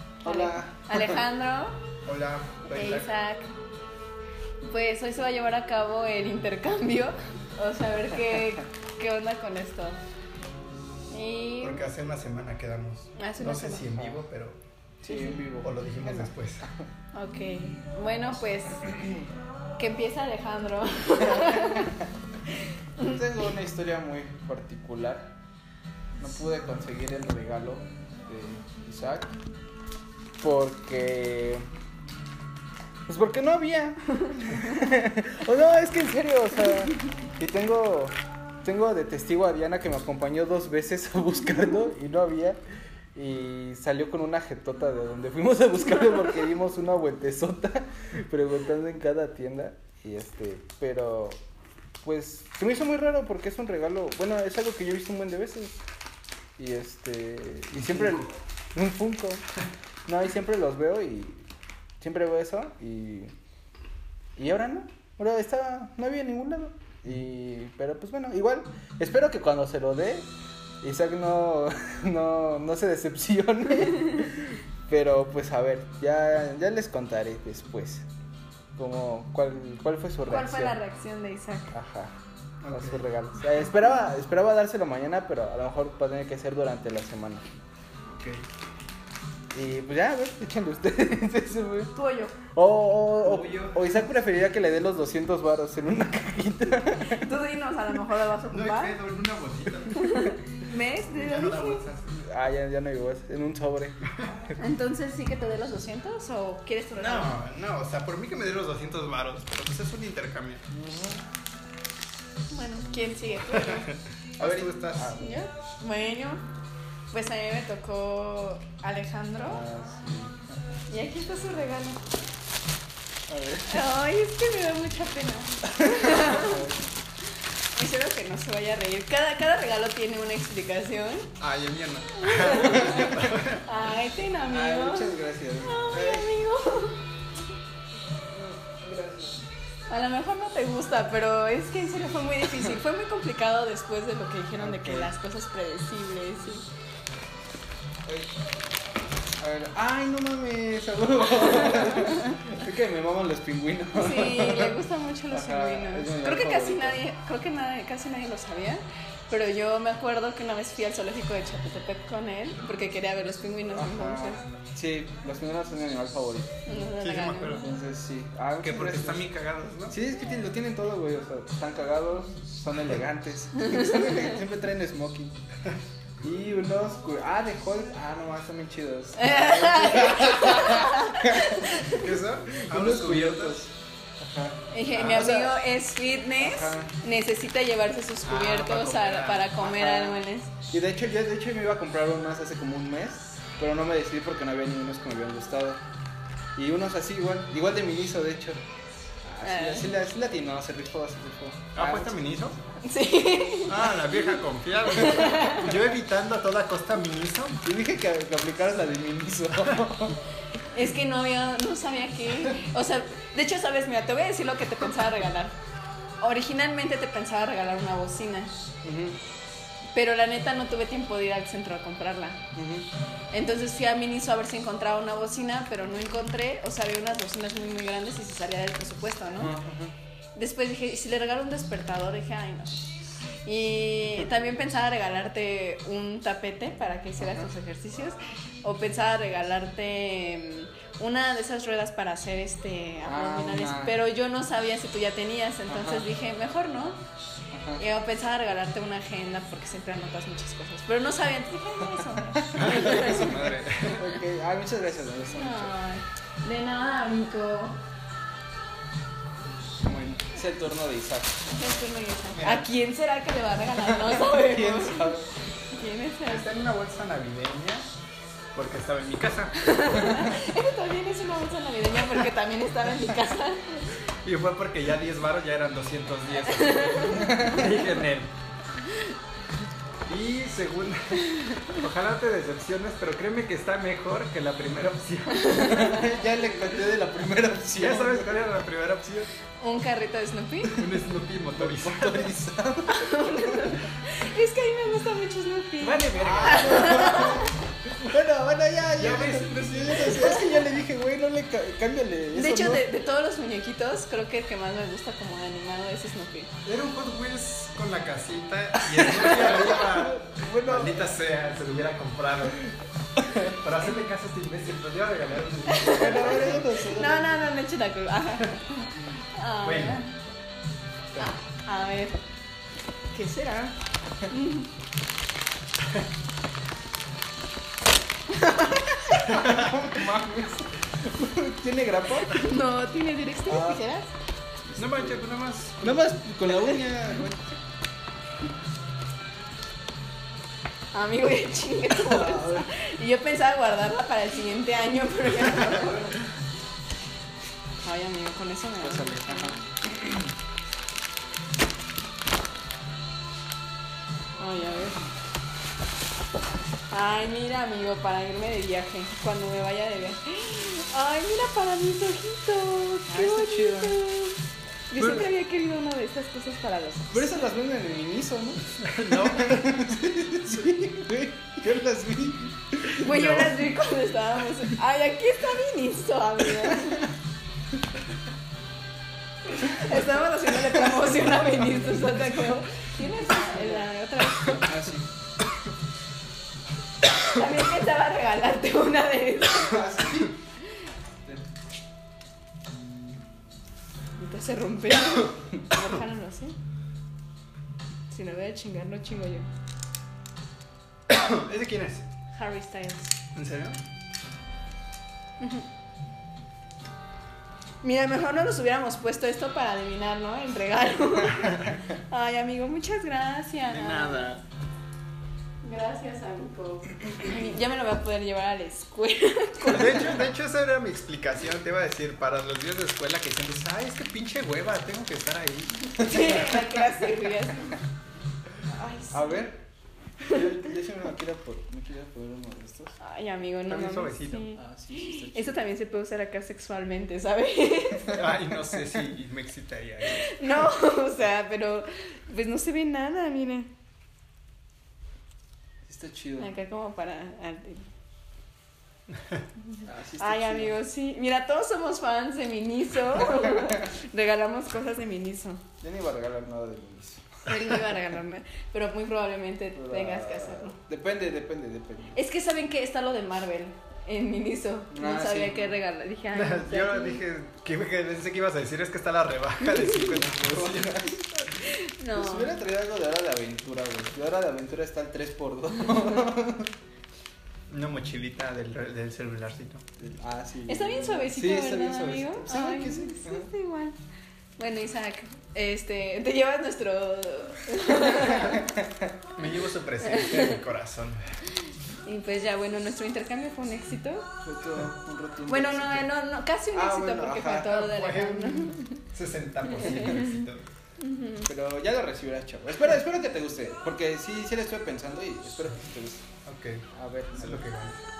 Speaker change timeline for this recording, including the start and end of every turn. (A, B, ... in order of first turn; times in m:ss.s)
0:00.2-0:01.2 A
0:00.2-0:01.8 B
0:02.0-0:03.1 C
0:02.7-0:03.5 B
0:04.6-0:10.0 B
0:11.1-0:11.8 B
0:11.6-0:14.6 C
0:13.2-0:14.0 B
0:15.0-0:16.9 A
0:15.1-0:15.4 B
0:15.6-0:16.7 C
0:17.1-0:19.0 B
0:19.8-0:22.0 B
0:21.4-0:21.8 A
0:23.0-0:25.3 A
0:26.2-0:29.4 A
0:30.4-0:31.7 A
0:33.1-0:42.6 A
0:43.1-0:51.4 A
0:52.0-0:55.8 A
0:56.6-0:59.4 A
1:00.1-1:01.5 A
1:02.0-1:03.3 A
1:04.4-1:10.3 A
1:10.8-1:18.1 A
1:18.8-1:20.8 A
1:20.3-1:21.7 B
1:21.7-1:22.1 A
1:22.6-1:23.0 C
1:22.7-1:27.4 A
1:28.1-1:28.4 C
1:29.5-1:31.9 A
1:31.9-1:32.4 B
1:32.5-1:37.3 A
1:33.2-1:33.8 C
1:36.9-1:39.0 B
1:38.5-1:40.4 C
1:40.0-1:41.8 B
1:41.1-1:42.2 C
1:42.1-1:44.0 A
1:44.1-1:44.4 C
1:44.6-1:47.4 B
1:47.0-1:50.6 C
1:50.7-1:51.2 A
1:52.5-1:53.9 B
1:54.4-1:55.4 A
1:54.4-1:55.2 C
1:55.2-1:56.4 B
1:57.1-1:59.6 B
1:59.5-2:00.6 A
2:00.9-2:02.0 B
2:03.3-2:03.8 A
2:03.6-2:06.7 B
2:05.8-2:06.8 A
2:07.7-2:11.3 B
2:11.4-2:13.6 C
2:12.2-2:17.0 B
2:12.5-2:13.1 A
2:14.5-2:16.3 A
2:18.4-2:19.4 A
2:19.9-2:26.6 B
2:24.5-2:25.1 A
2:28.0-2:28.3 A
2:29.4-2:37.0 A
2:31.6-2:32.2 B
2:33.9-2:44.4 B
2:43.7-2:46.5 A
2:46.6-2:47.7 B
2:47.0-2:47.7 C
2:47.6-2:49.3 A
2:48.6-2:50.0 C
2:49.9-2:55.3 A
2:53.6-2:54.3 B
2:56.2-3:01.8 A
2:59.2-3:02.1 B
3:01.9-3:03.6 C
3:02.6-3:05.6 A
3:04.7-3:10.5 B
3:06.4-3:06.9 A
3:08.2-3:09.6 C
3:09.6-3:15.8 A
3:16.6-3:18.6 A
3:19.2-3:22.2 A
3:19.4-3:19.9 B
3:21.7-3:22.6 C
3:22.8-3:24.2 B
3:23.7-3:27.6 C
3:24.9-3:25.7 B
3:27.6-3:30.2 A
3:30.7-3:35.5 B
3:36.2-3:38.5 B
3:38.8-3:39.2 A
3:39.9-3:42.4 B
3:42.5-3:42.9 A
3:43.3-3:49.6 B
3:49.4-3:49.9 A
3:50.3-4:07.0 B
3:57.2-3:57.5 A
4:03.0-4:04.0 A
4:05.7-4:06.1 A
4:07.5-4:07.8 A
4:07.8-4:13.5 B
4:12.3-4:15.7 A
4:12.5-4:14.1 C
4:15.3-4:17.8 B
4:19.8-4:21.5 A
4:21.5-4:25.2 B
4:22.3-4:22.7 C
4:24.0-4:25.3 A
4:25.7-4:26.5 B
4:26.3-4:27.9 C
4:28.5-4:30.0 C
4:29.6-4:33.9 B
4:34.2-4:38.3 C
4:36.4-4:37.5 B
4:37.2-4:37.6 A
4:40.1-4:45.7 C
4:45.4-4:46.1 B
4:45.5-4:48.4 A
4:47.7-4:49.3 C
4:49.6-4:50.8 B
4:50.7-4:52.3 C
4:51.6-4:53.2 A
4:52.9-4:57.5 B
4:55.8-5:02.9 A
4:56.2-4:57.0 C
4:58.9-5:00.5 C
5:02.3-5:06.5 B
5:06.6-5:12.7 C
5:08.8-5:11.2 A
5:13.2-5:13.5 A
5:13.5-5:16.6 C
5:15.7-5:20.1 B
5:15.8-5:17.5 A
5:19.6-5:20.0 C
5:21.2-5:22.2 B
5:23.1-5:24.7 B
5:28.3-5:28.8 B
5:28.8-5:32.5 A
5:29.3-5:29.9 C
5:32.3-5:34.1 B
5:33.5-5:33.8 A
5:34.7-5:35.2 A
5:34.8-5:36.1 C
5:35.8-5:37.5 A
5:40.9-5:46.2 B
5:41.9-5:42.7 A
5:47.8-5:49.6 B
5:48.8-5:50.1 A
5:54.4-5:55.0 B
5:56.9-6:04.4 B
6:03.1-6:04.1 A
6:04.9-6:07.4 B
6:07.1-6:13.1 A
6:08.8-6:09.8 C
6:13.0-6:17.1 B
6:13.0-6:13.6 C
6:19.5-6:24.9 B
6:20.7-6:22.3 A
6:23.2-6:23.9 A
6:24.5-6:25.0 A
6:27.0-6:29.9 B
6:29.5-6:30.4 A
6:34.2-6:36.5 B
6:38.1-6:39.5 B
6:41.1-6:42.0 C
6:42.3-6:43.1 B
6:43.3-6:43.8 C
6:45.4-6:45.6 B
6:47.8-6:54.3 B
6:53.7-6:54.4 C
6:55.6-7:00.2 B
6:59.6-7:06.5 C
7:05.9-7:07.8 B
7:08.6-7:09.5 B
7:09.1-7:09.6 A
7:10.2-7:13.0 A
7:13.0-7:18.2 B
7:13.7-7:14.5 C
7:14.6-7:15.6 A
7:18.1-7:20.7 C
7:20.0-7:23.7 B
7:25.8-7:26.5 A
7:26.4-7:27.8 B
7:29.8-7:30.8 A
7:30.2-7:35.6 B
7:35.8-7:37.4 A
7:37.4-7:40.8 B
7:39.7-7:42.2 A
7:42.1-7:47.2 B
7:44.9-7:45.8 A
7:46.3-7:51.1 C
7:50.1-7:51.3 A
7:51.6-7:52.6 B
7:52.1-7:56.7 A
7:57.7-7:59.8 C
8:00.0-8:03.5 A
8:00.7-8:04.0 B
8:04.6-8:08.7 B
8:09.4-8:11.2 C
8:10.0-8:10.6 B
8:12.0-8:14.3 B
8:14.4-8:16.1 A
8:15.5-8:19.0 B
8:16.7-8:17.8 A
8:17.6-8:20.6 C
8:19.7-8:20.4 B
8:21.0-8:21.5 B
8:21.5-8:26.2 A
8:26.4-8:26.8 C
8:26.9-8:27.6 A
8:27.4-8:28.0 C